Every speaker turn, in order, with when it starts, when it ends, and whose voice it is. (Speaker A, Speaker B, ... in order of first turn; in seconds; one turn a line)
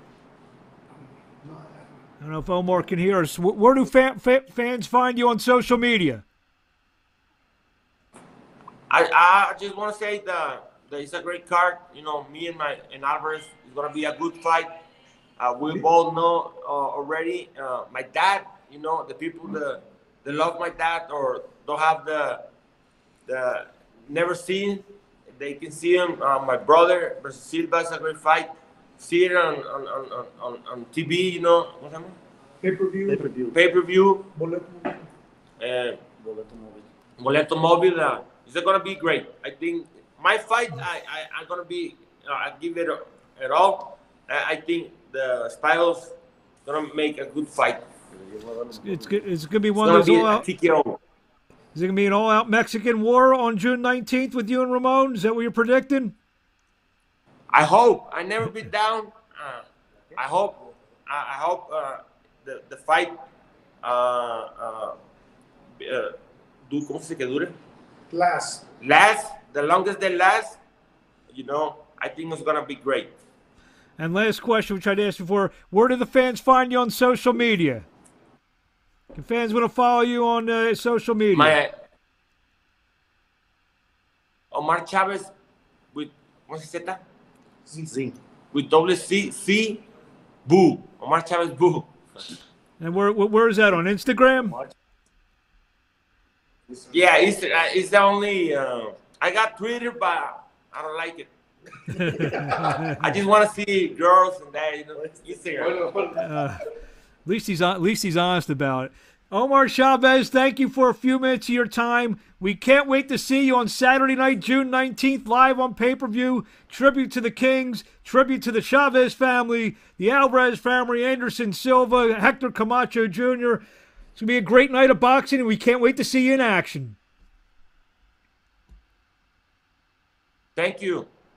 Speaker A: 1.4-1.8
Speaker B: 2.2-6.2
Speaker C: 8.9-14.7
Speaker C: 15.4-22.4
Speaker C: 23.3-24.8
Speaker C: 25.4-32.2
Speaker A: 32.6-33.3
Speaker D: 33.1-33.6
Speaker C: 33.5-34.3
Speaker A: 34.4-35.1
Speaker C: 35.6-36.0
Speaker D: 36.2-36.9
Speaker C: 37.2-46.1
Speaker C: 46.6-47.8
Speaker D: 48.1-49.2
Speaker B: 48.8-50.5
Speaker C: 49.8-51.0
Speaker B: 51.8-56.2
Speaker C: 57.5-63.1
Speaker C: 63.8-65.0
Speaker C: 65.8-66.1
Speaker C: 66.7-67.5
Speaker A: 68.1-68.6
Speaker C: 68.8-70.6
Speaker C: 71.3-73.1
Speaker B: 74.0-77.9
Speaker B: 79.1-81.6
Speaker C: 81.3-81.7
Speaker C: 84.5-85.3
Speaker C: 85.9-87.0
Speaker D: 87.9-88.2
Speaker C: 88.5-89.8
Speaker C: 90.5-91.9
Speaker B: 92.8-94.6
Speaker D: 94.4-94.8
Speaker C: 96.9-101.3
Speaker B: 101.9-103.1
Speaker C: 102.1-105.8
Speaker B: 106.2-106.6
Speaker B: 107.2-123.6
Speaker B: 124.2-127.0
Speaker C: 130.6-131.1